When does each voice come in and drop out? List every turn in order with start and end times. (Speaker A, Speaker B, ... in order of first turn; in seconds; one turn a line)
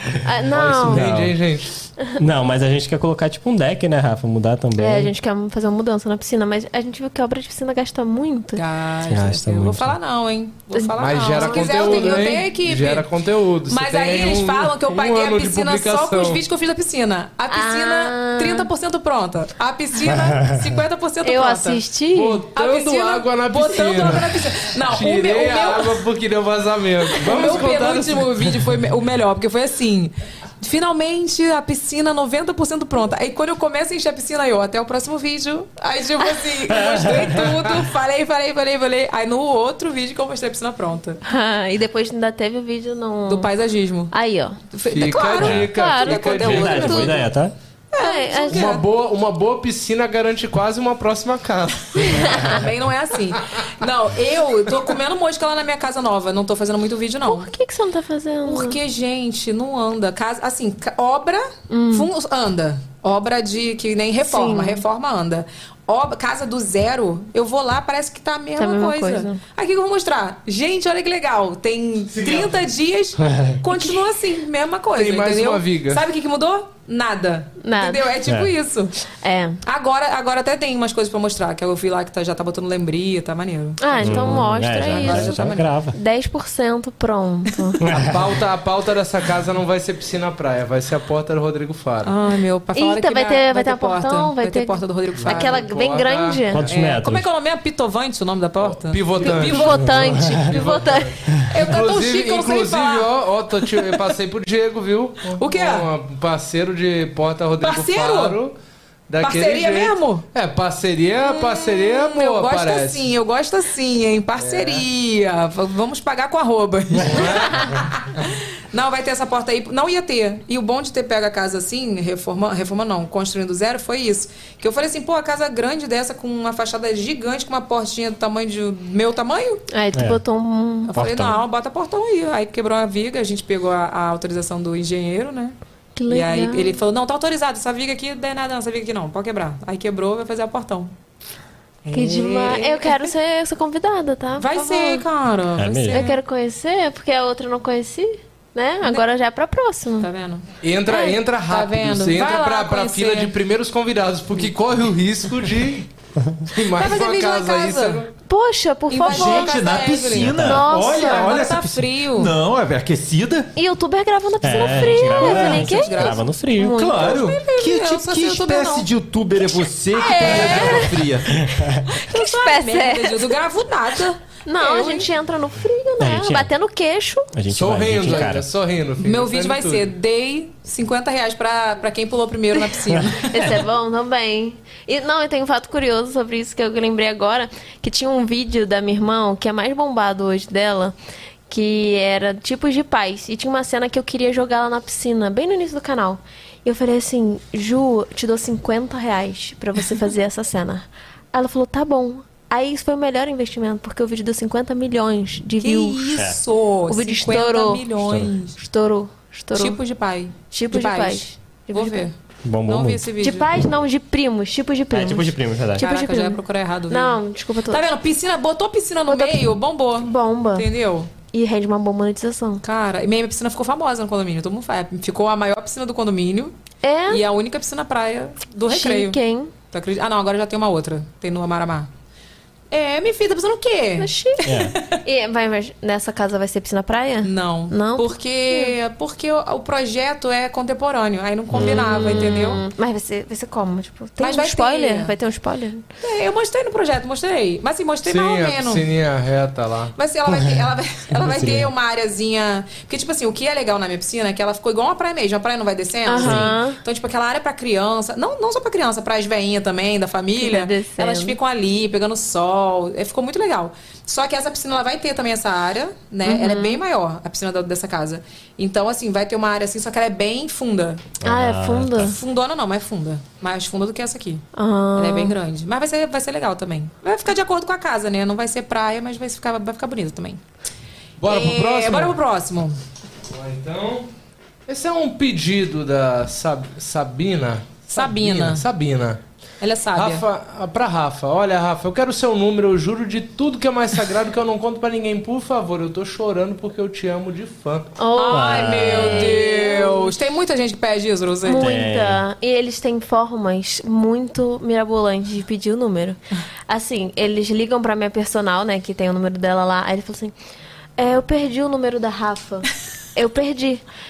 Speaker A: 0.2-1.1
Speaker B: 0.5-1.7
Speaker C: 0.9-1.4
Speaker C: 2.2-5.1
Speaker A: 4.8-8.6
Speaker D: 8.6-13.1
Speaker C: 9.1-10.0
Speaker A: 10.8-12.2
Speaker B: 11.0-16.4
Speaker D: 13.7-21.8
Speaker A: 17.5-18.7
Speaker C: 20.2-20.6
Speaker A: 21.2-22.5
Speaker B: 22.1-28.3
Speaker D: 22.5-26.0
Speaker D: 27.2-41.2
Speaker C: 36.7-37.5
Speaker A: 41.2-43.5
Speaker D: 43.3-44.1
Speaker A: 44.1-44.7
Speaker D: 44.7-47.3
Speaker B: 44.9-47.2
Speaker A: 45.4-46.5
Speaker C: 46.4-47.5
Speaker D: 47.9-48.8
Speaker A: 48.0-48.8
Speaker B: 48.5-52.5
Speaker A: 52.1-52.4
Speaker D: 52.2-57.5
Speaker A: 57.3-58.8
Speaker D: 58.5-78.9
Speaker A: 61.7-62.1
Speaker A: 64.2-64.8
Speaker A: 68.6-69.4
Speaker E: 72.1-72.5
Speaker B: 74.9-76.0
Speaker A: 77.6-78.2
Speaker C: 78.2-78.5
Speaker A: 79.2-79.6
Speaker D: 79.6-85.7
Speaker A: 83.8-87.8
Speaker C: 84.0-86.0
Speaker C: 87.8-88.3
Speaker B: 87.9-92.1
Speaker D: 92.0-95.7
Speaker A: 92.7-96.7
Speaker B: 95.2-96.4
Speaker C: 96.5-97.2
Speaker D: 96.6-99.8
Speaker B: 98.6-108.5
Speaker A: 99.2-101.2
Speaker C: 99.9-100.5
Speaker D: 101.5-103.1
Speaker D: 105.3-105.9
Speaker D: 107.6-108.4
Speaker B: 109.1-113.1
Speaker D: 109.2-110.3
Speaker D: 111.2-129.6
Speaker B: 114.4-114.8
Speaker B: 117.0-118.2
Speaker A: 129.7-130.9
Speaker C: 129.9-130.2
Speaker D: 130.9-135.6
Speaker C: 130.9-131.4
Speaker A: 136.0-136.8
Speaker D: 136.1-140.9
Speaker D: 141.8-143.1
Speaker A: 141.9-145.1
Speaker D: 144.4-146.2
Speaker C: 145.6-146.0
Speaker A: 145.9-150.1
Speaker D: 150.0-150.4
Speaker B: 150.6-155.9
Speaker A: 150.9-151.2
Speaker D: 151.0-153.3
Speaker C: 156.2-156.4
Speaker B: 156.5-158.1
Speaker D: 156.8-158.0
Speaker A: 158.3-161.4
Speaker D: 158.9-162.3
Speaker E: 159.1-163.5
Speaker C: 160.2-160.6
Speaker A: 163.6-167.4
Speaker C: 164.4-166.8
Speaker D: 164.6-166.2
Speaker E: 166.6-171.4
Speaker D: 167.0-168.9
Speaker A: 169.9-171.1
Speaker D: 170.0-170.9
Speaker C: 171.3-171.8
Speaker D: 171.9-175.1
Speaker A: 172.1-173.4
Speaker A: 174.5-177.3
Speaker C: 176.0-176.5
Speaker C: 177.3-178.5
Speaker B: 177.5-179.9
Speaker D: 179.0-183.3
Speaker A: 183.1-190.9
Speaker A: 191.5-206.3
Speaker D: 205.6-208.6
Speaker A: 206.9-207.9
Speaker C: 208.1-208.3
Speaker A: 208.6-209.8
Speaker D: 209.5-212.1
Speaker A: 210.5-212.1
Speaker C: 212.4-213.0
Speaker D: 212.7-213.5
Speaker A: 213.2-217.8
Speaker C: 214.9-215.9
Speaker D: 215.8-221.1
Speaker A: 219.1-220.7
Speaker A: 221.3-222.6
Speaker D: 222.6-226.5
Speaker A: 226.8-227.2
Speaker D: 227.1-229.2
Speaker A: 228.7-229.5
Speaker D: 229.7-231.9
Speaker D: 232.7-235.0
Speaker A: 234.0-238.8
Speaker C: 234.4-234.7
Speaker D: 237.2-242.6
Speaker A: 241.5-245.9
Speaker D: 244.2-245.1
Speaker D: 246.0-248.8
Speaker B: 248.0-249.9
Speaker D: 250.0-271.0
Speaker C: 251.1-251.7
Speaker A: 256.1-256.8
Speaker C: 256.2-256.5
Speaker A: 260.4-261.4
Speaker A: 266.3-266.8
Speaker C: 271.2-272.1
Speaker A: 271.2-272.2
Speaker D: 272.0-274.4
Speaker A: 274.5-275.4
Speaker D: 274.9-280.4
Speaker B: 281.2-282.2
Speaker D: 281.3-282.8
Speaker B: 283.2-284.1
Speaker B: 284.7-289.2
Speaker D: 287.9-288.6
Speaker D: 289.6-290.2
Speaker B: 289.9-298.0
Speaker A: 298.0-300.1
Speaker D: 298.1-301.7
Speaker C: 298.3-299.4
Speaker A: 301.4-310.3
Speaker C: 301.6-302.2
Speaker A: 311.0-313.8